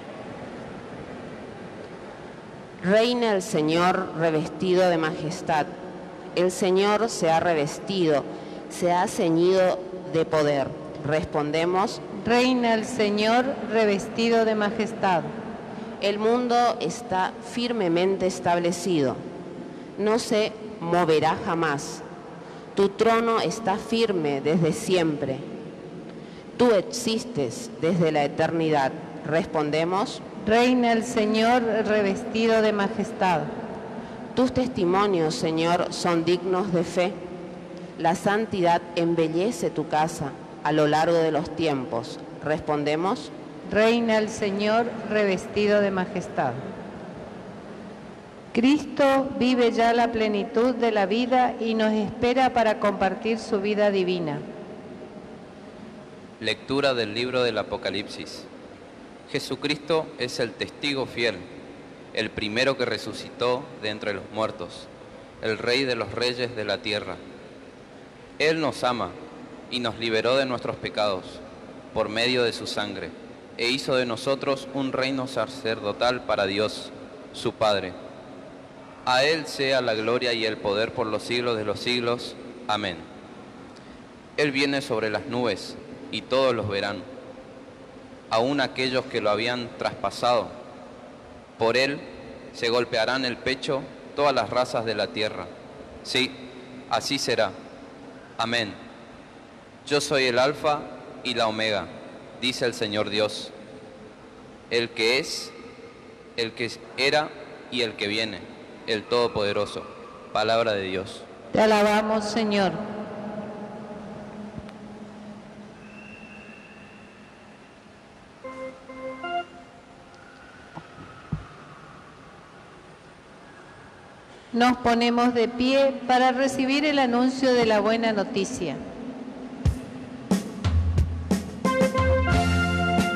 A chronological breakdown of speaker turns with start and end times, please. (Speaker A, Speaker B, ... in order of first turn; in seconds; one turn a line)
Speaker A: 2.8-5.7
Speaker A: 6.3-12.0
Speaker B: 12.2-15.3
Speaker A: 16.0-19.2
Speaker A: 20.0-22.0
Speaker A: 22.8-25.5
Speaker A: 26.6-30.2
Speaker B: 30.4-33.5
Speaker A: 34.3-37.2
Speaker A: 38.0-43.3
Speaker B: 43.7-46.6
Speaker B: 48.5-54.4
Speaker C: 56.4-58.5
Speaker C: 59.3-61.4
Speaker C: 62.1-64.9
Speaker C: 65.4-67.2
Speaker C: 68.4-69.2
Speaker C: 69.7-71.4
Speaker C: 71.9-78.0
Speaker C: 79.0-83.0
Speaker C: 84.4-87.1
Speaker C: 88.3-90.5
Speaker C: 91.6-95.5
Speaker C: 96.0-96.4
Speaker C: 96.9-97.5
Speaker C: 98.4-98.8
Speaker C: 99.8-103.5
Speaker C: 104.7-105.5
Speaker C: 106.4-111.3
Speaker B: 111.5-112.8
Speaker B: 124.5-128.8